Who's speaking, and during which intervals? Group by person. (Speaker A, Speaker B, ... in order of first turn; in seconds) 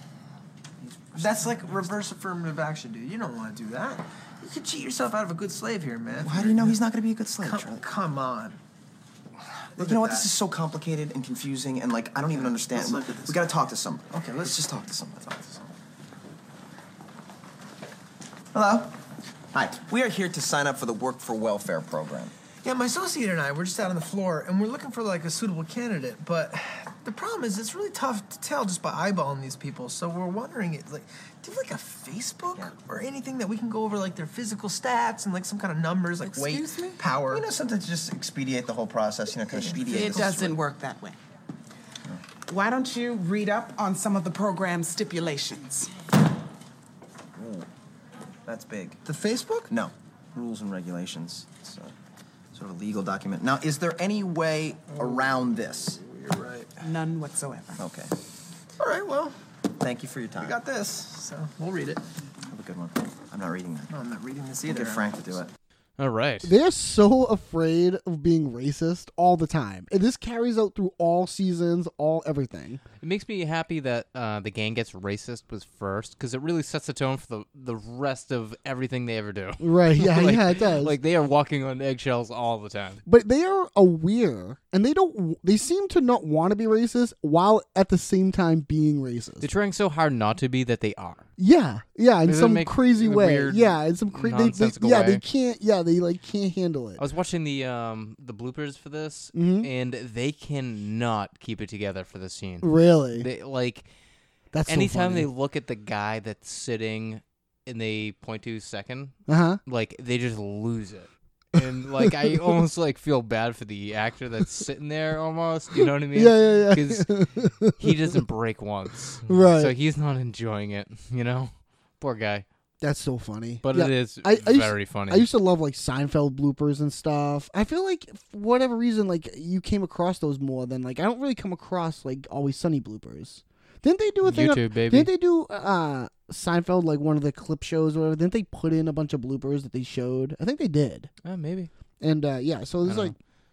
Speaker A: 1.1-6.8, 7.4-8.6, 9.8-10.3, 12.3-13.5, 14.1-14.7, 22.6-37.5, 39.5-40.3, 49.0-49.7, 55.0-55.4, 56.0-56.8, 58.8-59.4, 60.4-62.0, 63.9-65.4
Speaker B: 1.1-2.0, 6.2-7.8, 9.8-15.7, 18.5-19.0, 19.5-22.3, 37.1-40.6, 47.4-47.7, 48.5-49.0, 49.7-51.9, 52.5-56.0, 57.8-58.1, 59.8-60.6, 62.5-63.9, 64.6-65.5
Speaker C: 36.2-37.0, 39.9-41.2, 42.5-45.9, 56.8-57.8
Speaker D: 66.0-66.5, 73.0-83.0, 89.4-91.2, 92.2-95.2, 97.0-103.9, 104.7-122.5, 123.6-125.3, 134.2-135.1, 141.2-141.7, 142.8-143.1
Speaker E: 66.4-72.8, 79.6-81.0, 83.0-89.5, 91.4-97.0, 99.3-99.7, 102.6-103.3, 104.5-105.3, 109.3-109.6, 112.0-112.6, 115.8-118.2, 119.2-119.7, 122.8-141.1, 142.0-143.1